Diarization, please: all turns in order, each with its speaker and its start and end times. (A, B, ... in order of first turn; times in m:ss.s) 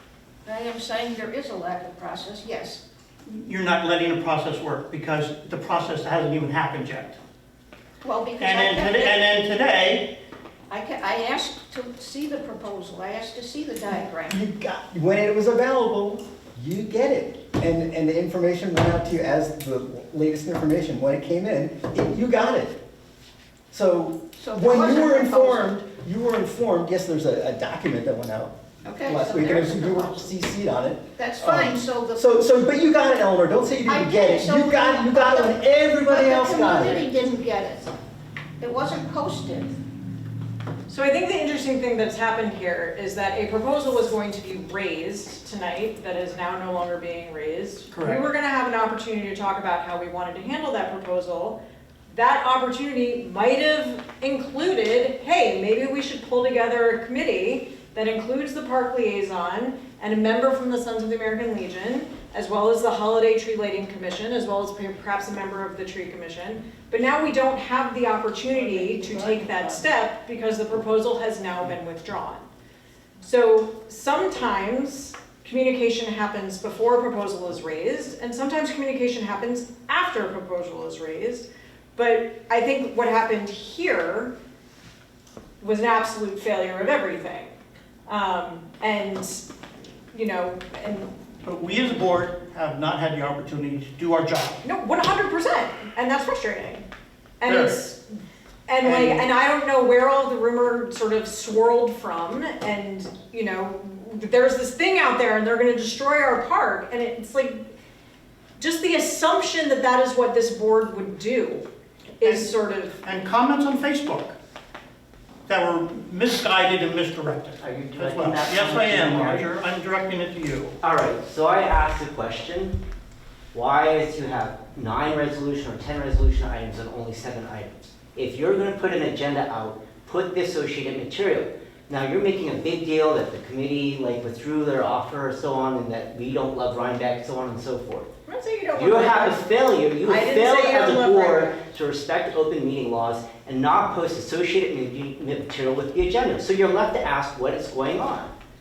0:00.5-0:02.8 A
0:03.3-0:07.2 B
0:08.0-0:09.2 A
0:08.4-0:10.2 B
0:10.7-0:14.4 A
0:14.3-0:22.8 C
0:23.7-0:37.1 C
0:24.4-0:25.8 A
0:28.8-0:30.3 A
0:31.2-0:32.3 A
0:33.9-0:38.0 A
0:38.6-0:39.7 A
0:40.9-1:12.5 D
0:47.9-0:48.2 B
1:13.2-1:24.3 D
1:25.6-1:27.5 D
1:28.1-1:29.5 D
1:30.1-1:31.1 D
1:31.4-1:34.6 B
1:34.6-1:36.9 D
1:37.4-1:38.0 D
1:37.4-1:37.8 B
1:38.7-1:47.6 D
1:38.8-1:39.3 B
1:48.6-1:51.7 D
1:52.2-1:53.0 D
1:52.2-1:52.5 B
1:53.0-1:54.4 B
1:55.5-2:00.8 B
1:57.6-1:59.5 E
2:00.8-2:02.8 E
2:03.5-2:18.1 E
2:18.3-2:21.6 D
2:18.8-2:28.3 E